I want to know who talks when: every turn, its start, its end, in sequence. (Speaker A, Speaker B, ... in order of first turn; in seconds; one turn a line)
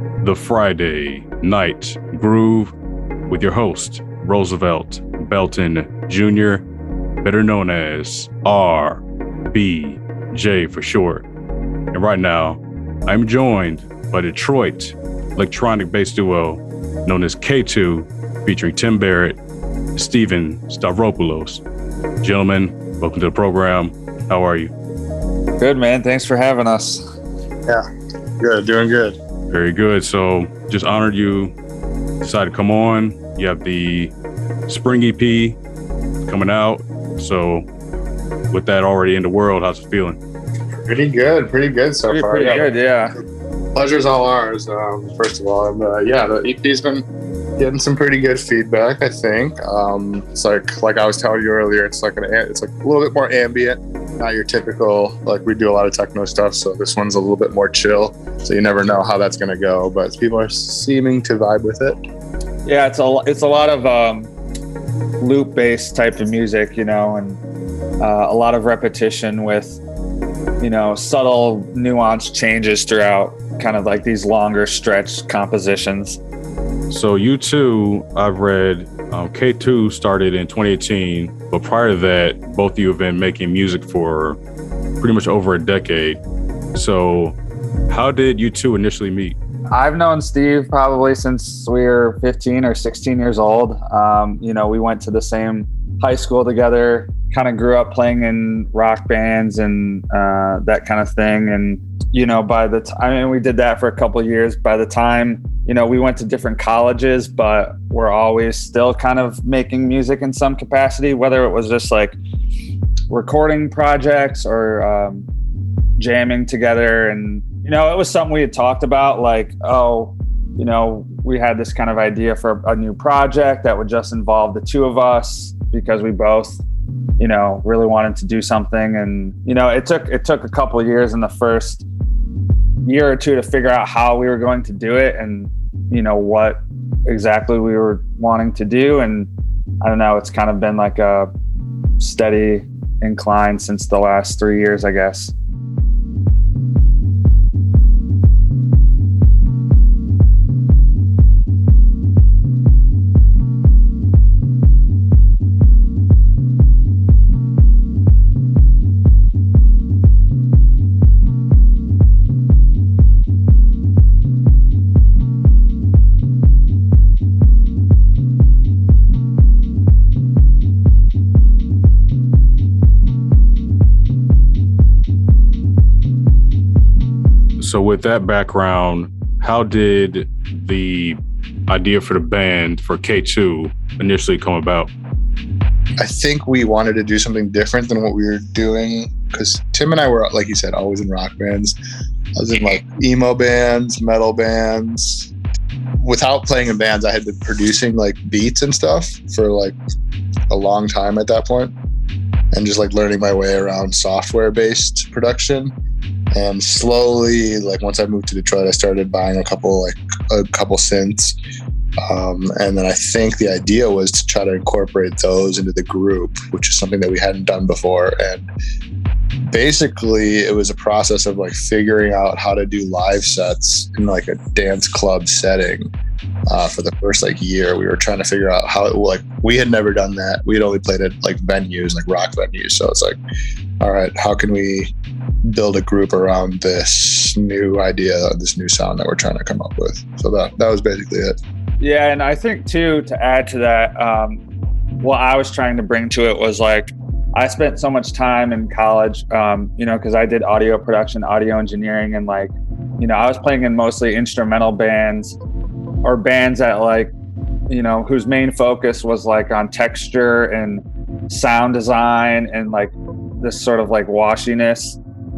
Speaker A: 0.2-2.7
Speaker A: 3.3-6.6
Speaker A: 7.2-11.2
Speaker A: 11.9-19.4
Speaker A: 19.9-21.6
Speaker A: 22.2-24.7
Speaker B: 25.6-27.1
Speaker C: 28.4-29.2
Speaker A: 29.5-31.5
Speaker A: 32.2-34.1
Speaker A: 34.7-35.6
Speaker A: 36.2-37.6
Speaker A: 38.5-40.2
Speaker C: 40.8-42.7
Speaker B: 42.1-43.1
Speaker C: 43.7-47.0
Speaker C: 47.6-62.0
Speaker B: 62.6-64.3
Speaker B: 65.2-67.4
Speaker B: 68.0-69.8
Speaker B: 70.6-76.2
Speaker A: 76.9-84.4
Speaker A: 85.0-86.2
Speaker A: 86.7-87.3
Speaker A: 87.9-89.4
Speaker B: 89.7-112.2
Speaker B: 113.1-115.3
Speaker B: 116.0-126.6
Speaker B: 127.2-131.8
Speaker B: 132.8-139.3
Speaker B: 139.8-141.3
Speaker B: 142.0-145.3
Speaker A: 177.6-184.9
Speaker C: 186.0-191.8
Speaker C: 192.4-195.3
Speaker C: 196.0-199.8
Speaker C: 200.5-201.7
Speaker C: 202.5-205.7
Speaker C: 206.3-211.4
Speaker C: 212.1-218.5
Speaker C: 219.4-225.9
Speaker C: 226.5-233.2
Speaker C: 233.8-234.9
Speaker C: 235.4-241.4
Speaker B: 241.8-244.4
Speaker B: 245.0-255.3
Speaker B: 256.0-257.1
Speaker B: 257.7-265.0